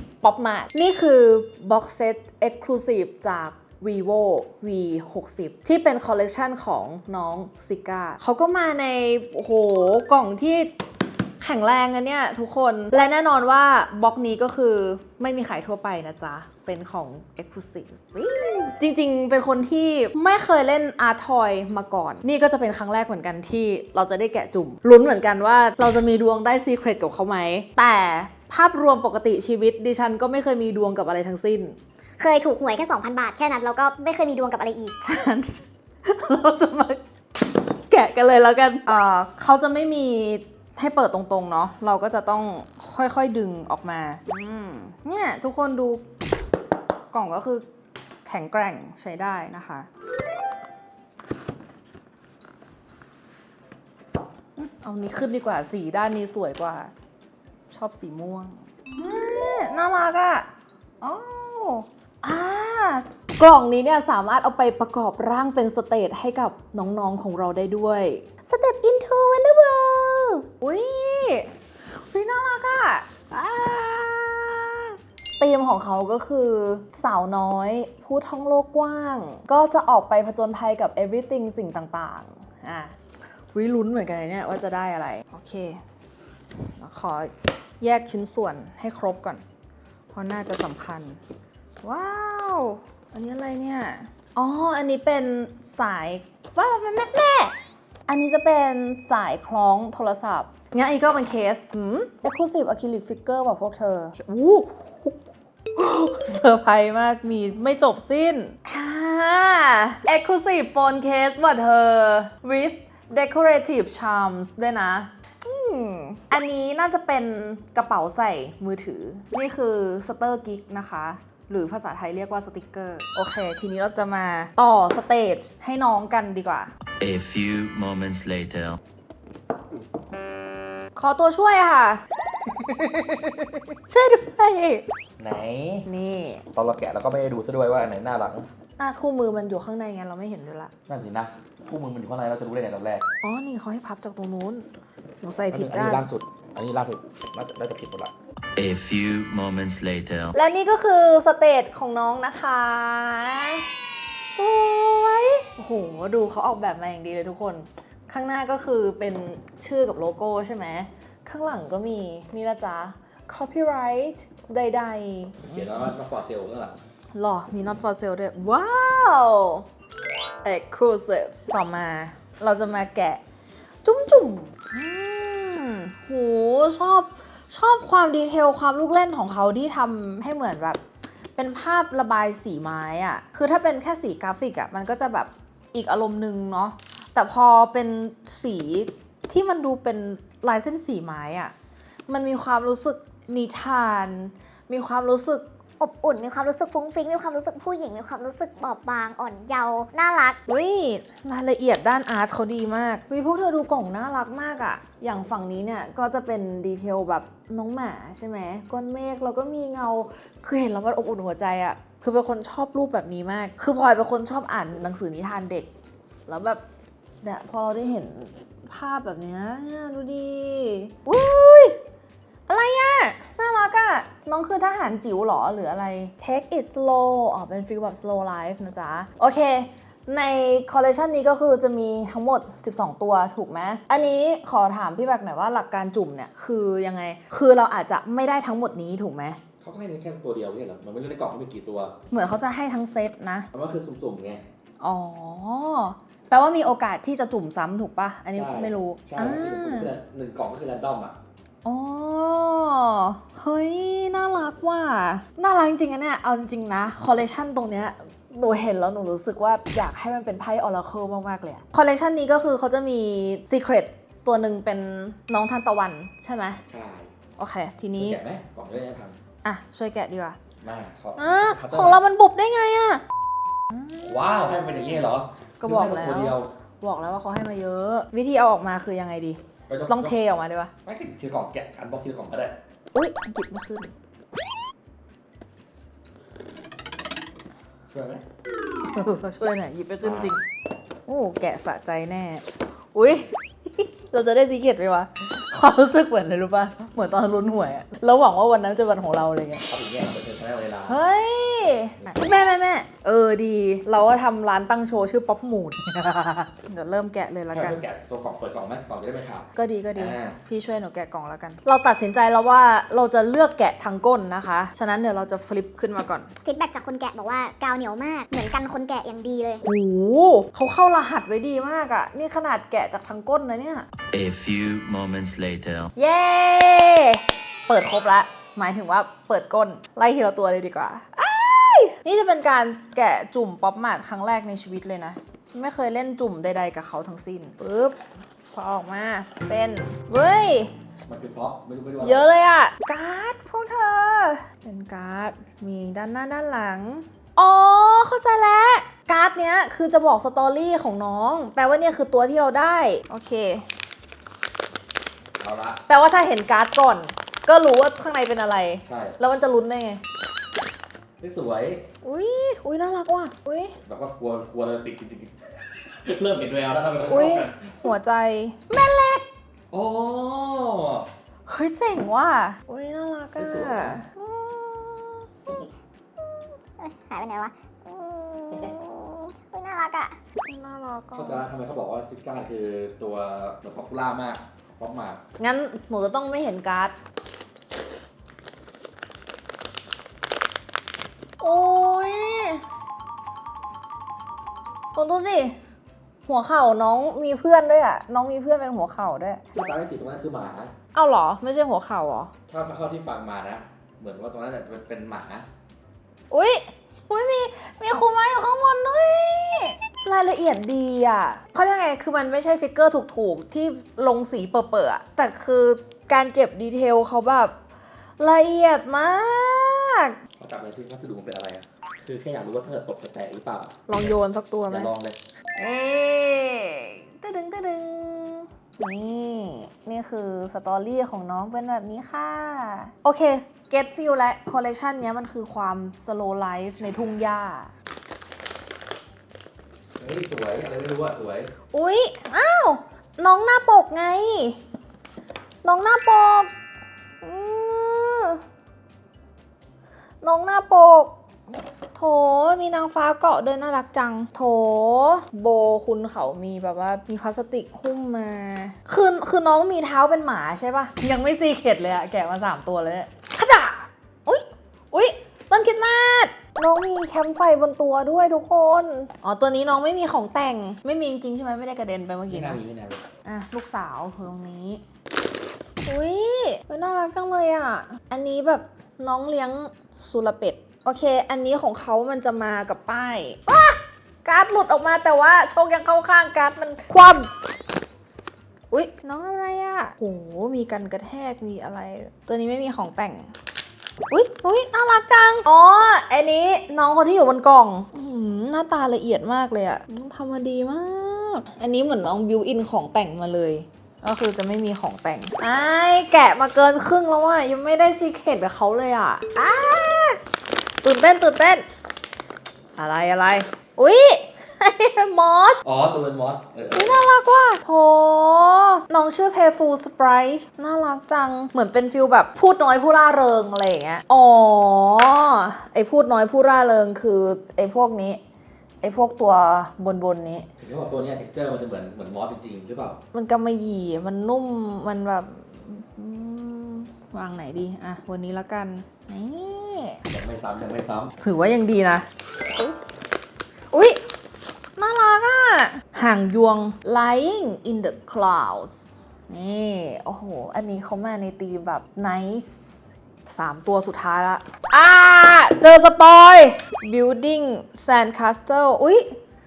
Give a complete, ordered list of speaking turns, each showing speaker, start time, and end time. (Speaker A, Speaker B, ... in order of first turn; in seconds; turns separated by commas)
Speaker A: 0.2-10.7, Speaker A: 11.4-31.8, Speaker B: 32.2-35.0, Speaker A: 35.0-37.0, Speaker A: 37.9-46.0, Speaker A: 47.1-47.7, Speaker A: 48.2-49.9, Speaker A: 54.6-56.9, Speaker A: 57.7-60.5, Speaker A: 61.0-83.0, Speaker A: 83.5-85.8, Speaker A: 86.8-89.4, Speaker A: 90.1-91.2, Speaker A: 91.8-97.5, Speaker A: 98.1-105.2, Speaker A: 105.8-126.7, Speaker C: 127.0-128.8, Speaker A: 130.9-134.8, Speaker D: 135.2-135.9, Speaker A: 135.9-136.4, Speaker D: 136.5-138.5, Speaker A: 138.8-140.7, Speaker D: 140.9-143.1, Speaker A: 143.2-144.7, Speaker A: 145.2-146.1, Speaker D: 145.5-148.1, Speaker C: 148.6-150.3, Speaker A: 150.3-153.7, Speaker A: 154.3-165.7, Speaker D: 165.4-166.8, Speaker A: 167.1-169.7, Speaker A: 170.4-173.2, Speaker A: 173.8-180.8, Speaker A: 181.4-191.5, Speaker A: 192.1-195.5, Speaker B: 195.8-200.4, Speaker A: 200.5-215.7, Speaker A: 216.3-216.6, Speaker A: 217.2-221.8, Speaker A: 222.5-239.4, Speaker D: 239.6-242.0, Speaker A: 242.1-243.5, Speaker D: 243.5-244.4, Speaker A: 244.8-249.9, Speaker D: 248.3-251.2, Speaker A: 251.7-266.6, Speaker D: 266.7-267.1, Speaker A: 267.4-268.2, Speaker D: 268.0-269.2, Speaker A: 269.4-270.4, Speaker D: 270.6-272.0, Speaker A: 271.2-273.0, Speaker A: 273.7-274.1, Speaker D: 274.0-276.5, Speaker A: 275.6-280.7, Speaker D: 279.7-280.2, Speaker D: 280.9-282.6, Speaker A: 282.9-283.9, Speaker D: 287.9-288.2, Speaker A: 288.8-290.4, Speaker D: 290.0-290.4, Speaker A: 291.1-299.6, Speaker D: 299.7-301.0, Speaker A: 300.9-307.8, Speaker D: 302.0-302.3, Speaker D: 307.5-310.4, Speaker A: 309.6-316.3, Speaker B: 316.4-319.6, Speaker A: 319.6-323.9, Speaker C: 324.1-325.9, Speaker A: 326.0-338.0, Speaker A: 338.5-340.7, Speaker D: 341.1-342.3, Speaker A: 342.0-353.6, Speaker D: 355.4-355.8, Speaker A: 355.9-360.0, Speaker D: 358.9-359.2, Speaker D: 361.2-361.9, Speaker A: 362.0-363.8, Speaker D: 363.8-367.9, Speaker A: 367.1-369.2, Speaker D: 369.7-371.1, Speaker A: 371.5-374.1, Speaker D: 373.4-374.0, Speaker B: 374.2-375.7, Speaker B: 376.3-380.1, Speaker A: 380.4-381.5, Speaker D: 381.1-385.2, Speaker A: 385.4-386.9, Speaker A: 391.4-392.6, Speaker A: 394.9-395.6, Speaker A: 396.3-399.5, Speaker D: 399.6-400.7, Speaker A: 400.9-402.3, Speaker D: 402.5-405.5, Speaker A: 406.3-417.6, Speaker A: 418.2-420.2, Speaker D: 420.4-424.1, Speaker A: 423.9-424.9, Speaker D: 424.7-425.2, Speaker A: 425.6-437.7, Speaker D: 436.8-437.2, Speaker D: 440.0-441.5, Speaker A: 441.7-444.6, Speaker A: 445.6-446.5, Speaker A: 447.2-448.4, Speaker A: 450.2-451.1, Speaker A: 451.9-472.6, Speaker D: 472.3-473.1, Speaker A: 473.2-474.8, Speaker A: 475.9-487.3, Speaker A: 488.7-493.3, Speaker A: 494.1-510.2, Speaker A: 510.8-511.6, Speaker A: 512.8-515.6, Speaker D: 515.6-517.0, Speaker A: 516.8-528.2, Speaker A: 528.8-530.5, Speaker D: 530.6-533.0, Speaker A: 533.1-540.0, Speaker D: 540.1-541.1, Speaker A: 541.2-542.1, Speaker A: 543.7-544.0, Speaker A: 544.8-552.8, Speaker A: 553.3-559.1